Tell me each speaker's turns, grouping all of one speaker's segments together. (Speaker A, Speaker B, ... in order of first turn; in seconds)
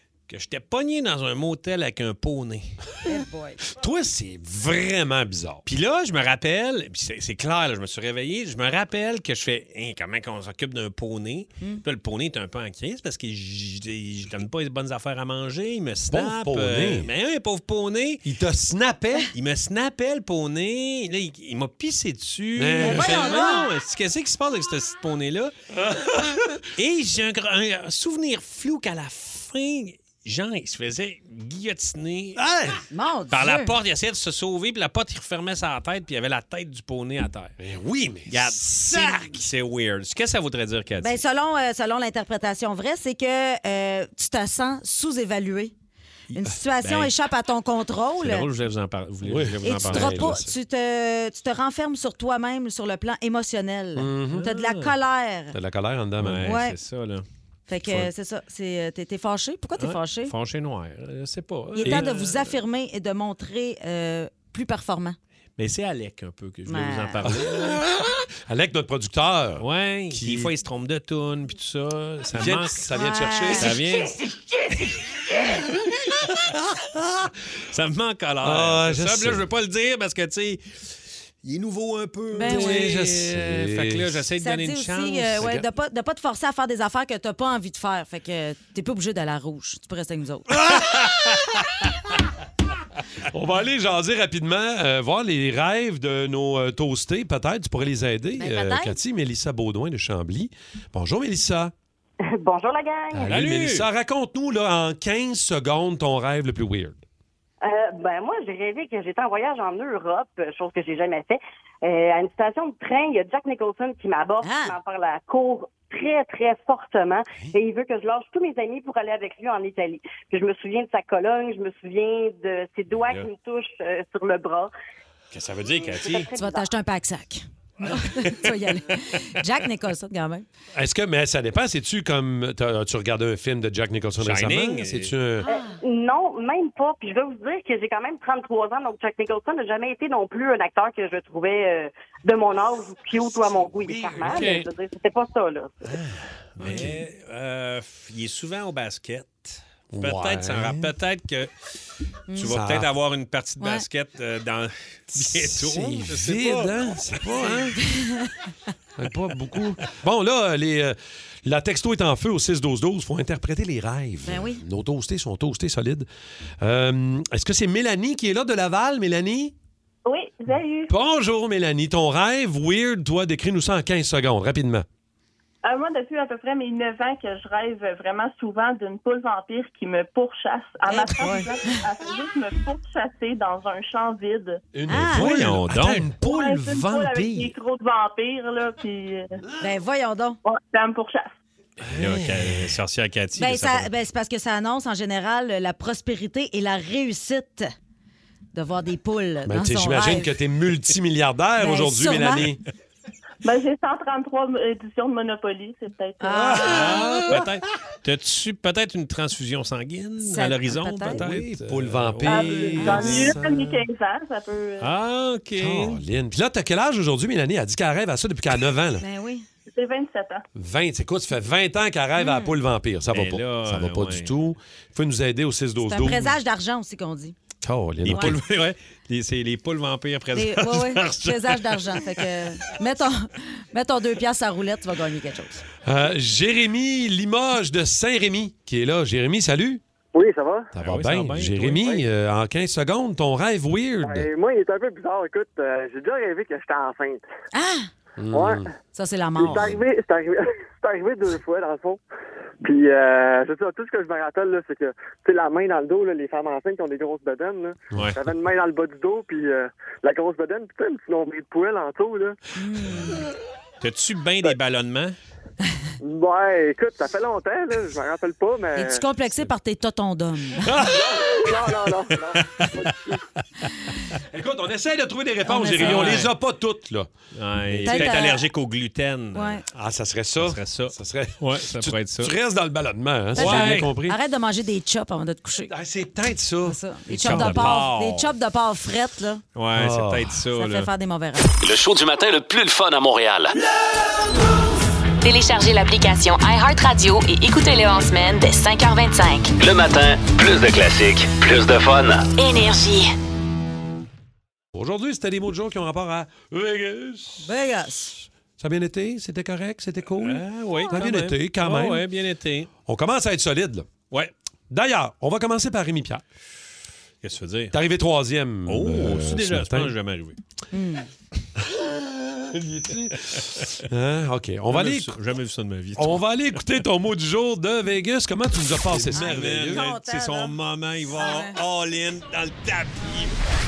Speaker A: 0.3-2.8, 5.7-18.2, 19.3-25.5, 26.8-32.4, 33.3-37.5, 38.3-41.2, 46.8-47.1, 48.2-50.3, 54.3-54.9, 56.2-57.2, 59.8-62.6, 65.6-67.8, 69.6-72.8, 73.6-74.2, 74.7-75.7, 77.2-80.8, 81.4-85.7, 103.3-103.9, 125.3-126.3, 134.2-135.1, 144.2-144.7, 146.6-151.7, 152.3-157.8, 185.1-186.1, 192.0-193.9, 206.6-213.3, 214.8-216.0, 223.1-224.3, 228.0-232.1, 240.8-241.8, 263.8-265.2, 272.2-272.9, 275.8-276.3, 277.3-279.6, 280.4-282.4, 283.3-283.9, 287.1-288.3, 289.6-290.9, 310.2-312.7, 317.2-317.8, 318.7-320.4, 323.2-323.8, 324.7-326.2, 328.9-333.4
Speaker B: 3.0-3.6, 22.8-23.7, 32.9-33.7, 41.0-45.7, 46.3-48.5, 49.6-55.6, 56.4-56.8, 57.7-60.3, 61.8-65.2, 66.7-67.3, 72.9-73.8, 82.3-82.9, 84.4-90.5, 98.4-99.0, 114.4-114.8, 126.3-130.4, 135.4-135.8, 146.7-147.0, 152.3-152.5, 153.6-153.9, 157.9-158.3, 164.3-164.6, 180.9-181.8, 184.9-185.3, 189.6-190.4, 193.4-197.7, 198.5-200.3, 201.6-202.5, 206.2-207.3, 210.2-211.2, 212.8-213.3, 219.0-219.5, 222.2-222.6, 225.9-227.4, 230.3-235.7, 247.5-247.9, 248.9-249.7, 262.6-263.2, 268.8-270.9, 275.4-276.3, 277.9-278.4, 279.4-279.6, 283.4-285.7, 286.7-289.4, 290.5-291.5, 307.4-308.2, 320.7-321.1, 329.1-331.6
Speaker C: 3.7-5.7, 16.1-17.1, 18.2-19.3, 22.6-23.6, 25.8-26.6, 32.4-32.8, 37.6-39.4, 49.2-50.5, 54.0-54.5, 55.5-56.5, 61.8-62.1, 67.2-70.5, 72.3-74.1, 78.4-79.4, 82.5-84.2, 90.5-91.6, 93.3-101.7, 103.1-107.0, 125.4-125.9, 130.7-135.5, 143.8-144.6, 145.9-146.9, 149.9-150.9, 152.4-152.9, 155.1-157.8, 159.0-166.1, 166.6-169.6, 170.9-174.9, 184.7-187.5, 191.8-192.8, 199.5-202.6, 206.5-207.5, 211.1-213.8, 215.6-219.0, 220.6-226.4, 227.6-228.4, 235.8-239.8, 240.7-244.3, 248.2-248.7, 249.4-249.8, 270.6-271.6, 274.3-278.2, 279.7-284.2, 285.7-287.7, 289.7-290.4, 304.7-307.5, 308.6-312.1, 312.9-313.9, 314.7-316.2, 317.7-319.9, 321.6-325.2, 326.0-329.9
Speaker D: 102.3-103.4, 107.6-124.7, 125.8-126.7, 135.5-145.8
Speaker E: 170.1-170.9, 175.7-184.6, 186.2-189.4, 190.4-191.3, 203.4-206.6, 212.2-214.9, 219.7-220.4
Speaker F: 240.1-240.7, 244.1-247.2, 248.3-248.7, 249.4-252.0, 252.6-262.4, 266.0-269.0, 270.9-273.2
Speaker G: 291.6-293.5, 299.6-302.3
Speaker H: 295.2-299.5, 302.4-303.1